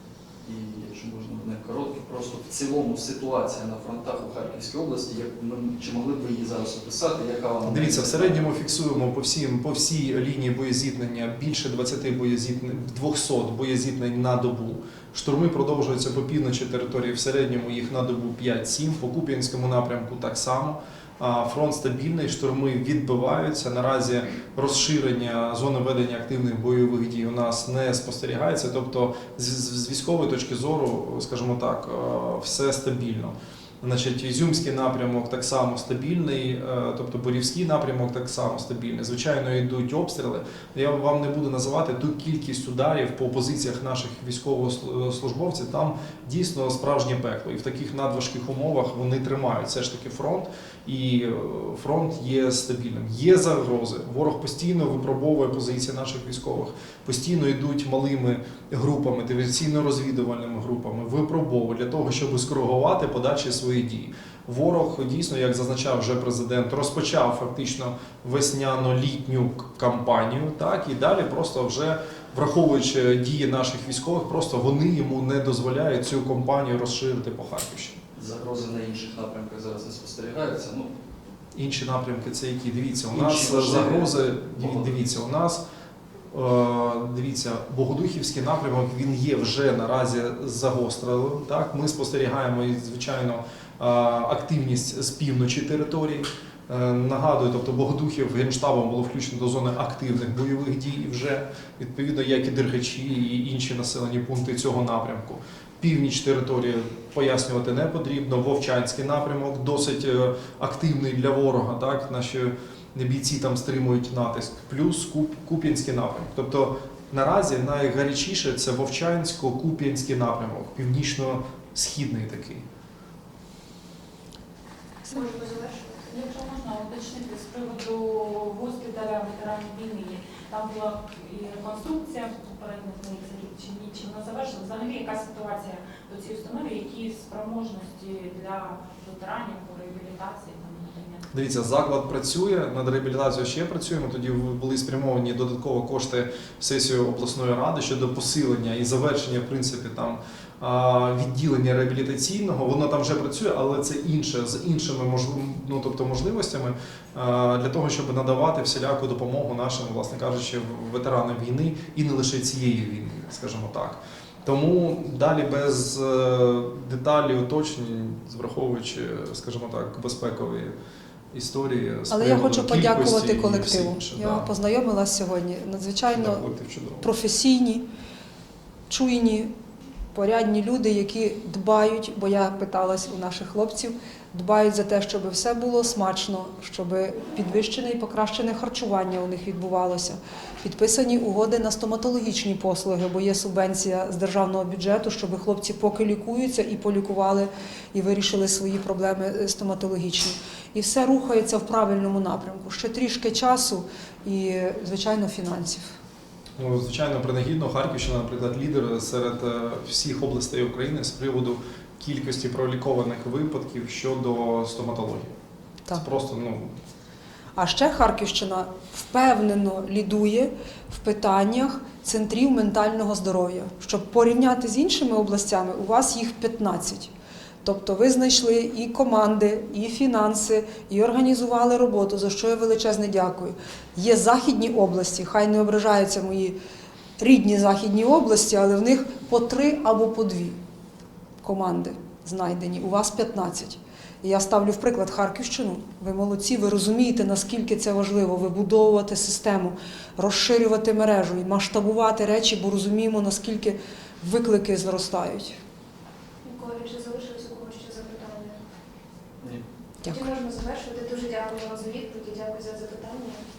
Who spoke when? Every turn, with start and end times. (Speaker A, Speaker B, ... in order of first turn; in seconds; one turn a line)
Speaker A: 0.4-8.5
Speaker B: 7.7-78.0
Speaker A: 78.2-80.9
Speaker B: 81.5-85.6
Speaker A: 83.1-85.0
Speaker B: 86.3-122.6
Speaker C: 125.1-126.1
Speaker D: 126.1-141.2
Speaker B: 141.3-170.7
Speaker B: 171.3-174.5
Speaker E: 172.1-176.4
Speaker B: 176.1-177.1
Speaker E: 177.0-177.8
Speaker E: 178.9-179.5
Speaker E: 180.1-205.9
Speaker B: 206.6-215.3
Speaker B: 215.9-216.7
Speaker E: 217.6-227.1
Speaker E: 227.6-236.6
Speaker E: 237.2-240.6
Speaker E: 241.4-255.6
Speaker C: 256.4-258.6
Speaker C: 260.0-263.4